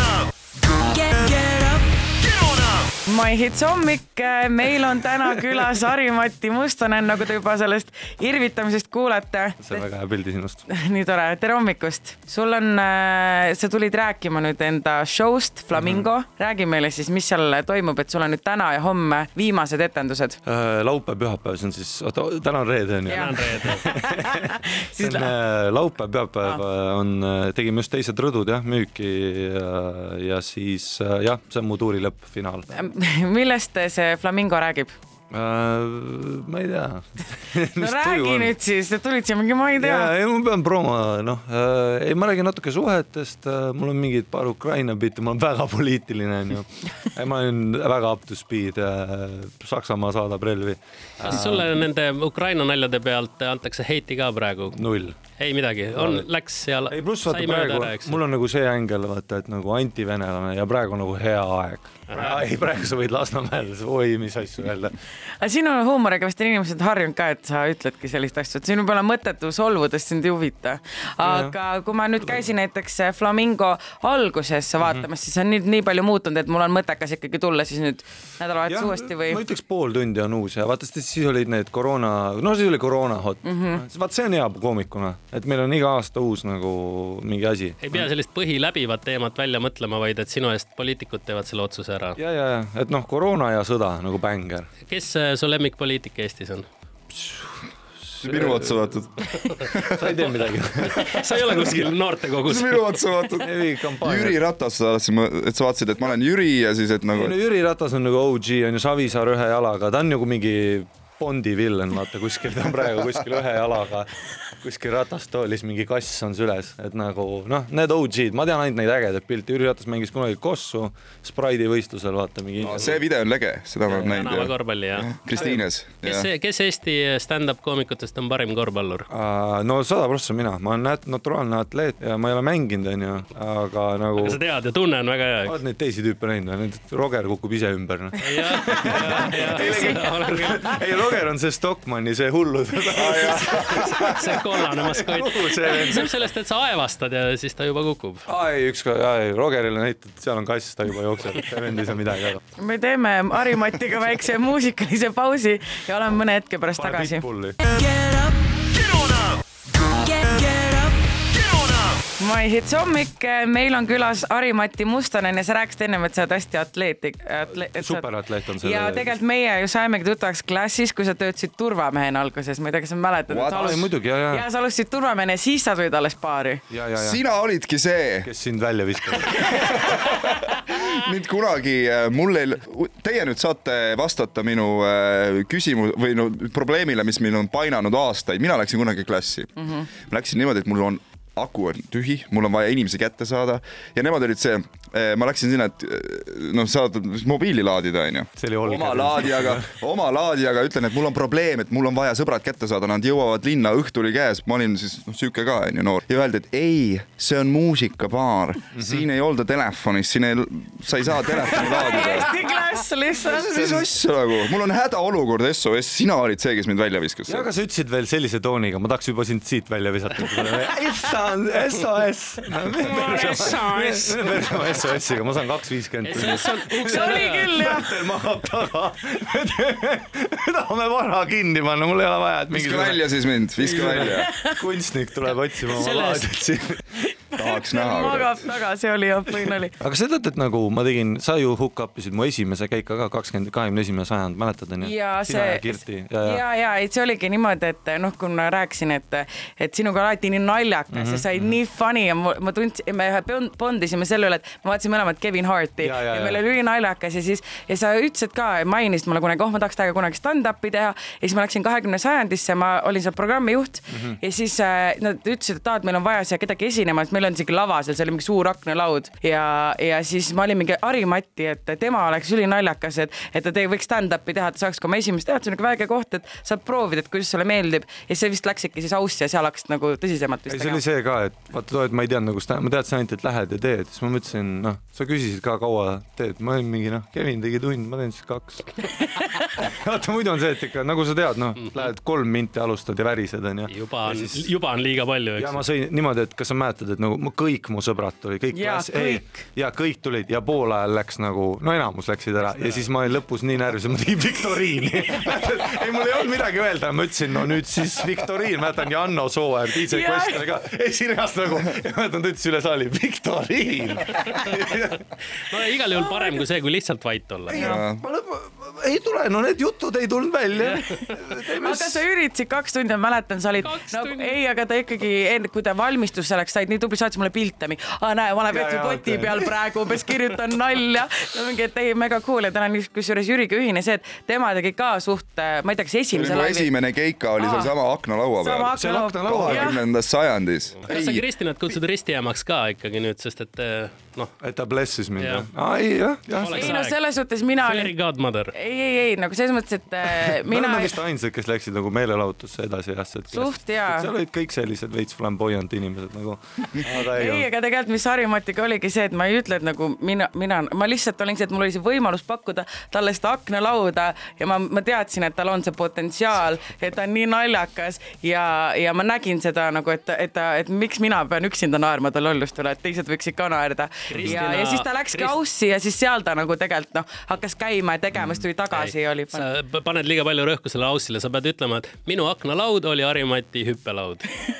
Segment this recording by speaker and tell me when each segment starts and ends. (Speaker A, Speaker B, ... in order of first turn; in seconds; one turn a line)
Speaker A: 0.8-1.7
Speaker A: 3.0-9.8
Speaker B: 9.6-10.7
Speaker A: 10.7-20.4
Speaker B: 15.7-16.1
Speaker B: 20.4-32.8
Speaker C: 23.1-23.8
Speaker A: 23.1-25.3
Speaker A: 32.7-34.9
Speaker B: 35.3-38.6
Speaker A: 37.8-40.1
Speaker B: 39.8-51.7
Speaker C: 51.2-54.8
Speaker B: 54.7-55.2
Speaker C: 55.4-58.2
Speaker B: 55.9-56.2
Speaker B: 56.9-64.9
Speaker C: 62.1-62.4
Speaker A: 65.4-79.4
Speaker B: 71.2-71.5
Speaker B: 74.8-75.1
Speaker B: 78.7-88.1
Speaker A: 83.4-83.8
Speaker C: 87.8-92.2
Speaker B: 92.2-94.7
Speaker C: 94.8-96.7
Speaker B: 97.1-98.7
Speaker D: 98.2-100.1
Speaker C: 99.3-99.7
Speaker B: 99.8-101.9
Speaker C: 100.8-103.0
Speaker D: 102.4-107.3
Speaker B: 103.4-104.4
Speaker B: 107.1-123.0
Speaker D: 122.6-126.3
Speaker C: 123.9-129.1
Speaker B: 129.1-134.4
Speaker C: 134.2-135.6
Speaker B: 135.4-146.2
Speaker C: 138.2-140.8
Speaker D: 142.9-144.4
Speaker C: 143.6-148.3
Speaker B: 148.3-152.4
Speaker A: 152.6-158.6
Speaker B: 156.8-157.6
Speaker A: 159.8-161.0
Speaker A: 162.2-168.1
Speaker B: 167.5-169.2
Speaker A: 168.6-176.6
Speaker D: 173.3-173.8
Speaker B: 173.5-174.4
Speaker B: 176.7-177.2
Speaker D: 177.0-178.3
Speaker B: 178.2-179.8
Speaker D: 179.3-212.3
Speaker B: 198.4-199.7
Speaker B: 208.7-209.1
Speaker B: 211.3-212.3
Speaker A: 211.3-213.8
Speaker D: 213.3-217.5
Speaker B: 213.5-213.8
Speaker B: 217.3-237.0
Speaker C: 222.7-224.6
Speaker C: 226.0-227.5
Speaker A: 226.8-228.1
Speaker D: 232.5-234.3
Speaker A: 234.2-234.6
Speaker C: 235.7-236.3
Speaker A: 237.3-239.7
Speaker D: 237.4-238.4
Speaker B: 239.4-246.4
Speaker A: 244.8-280.8
Speaker B: 250.9-251.6
Speaker B: 255.8-256.4
Speaker B: 263.9-264.2
Speaker B: 280.5-288.8
Speaker B: 289.6-294.5
Speaker C: 293.7-295.6
Speaker B: 295.4-315.0
Speaker A: 298.5-299.3
Speaker A: 309.9-310.4
Speaker C: 315.4-317.7
Speaker A: 316.0-316.3
Speaker B: 317.5-322.0
Speaker D: 317.6-318.0
Speaker C: 320.7-321.0
Speaker A: 321.6-336.7
Speaker C: 323.6-324.4
Speaker B: 328.5-329.6
Speaker D: 336.1-338.7
Speaker A: 337.4-337.7
Speaker A: 338.4-339.8
Speaker B: 338.7-339.8
Speaker D: 339.2-341.2
Speaker C: 340.8-344.3
Speaker B: 344.4-346.8
Speaker C: 345.2-345.5
Speaker C: 346.4-347.0
Speaker A: 346.5-347.9
Speaker C: 347.6-348.5
Speaker A: 348.5-351.0
Speaker B: 350.0-357.5
Speaker A: 353.3-354.1
Speaker A: 356.8-379.5
Speaker C: 374.1-375.4
Speaker B: 374.1-374.4
Speaker C: 378.7-384.3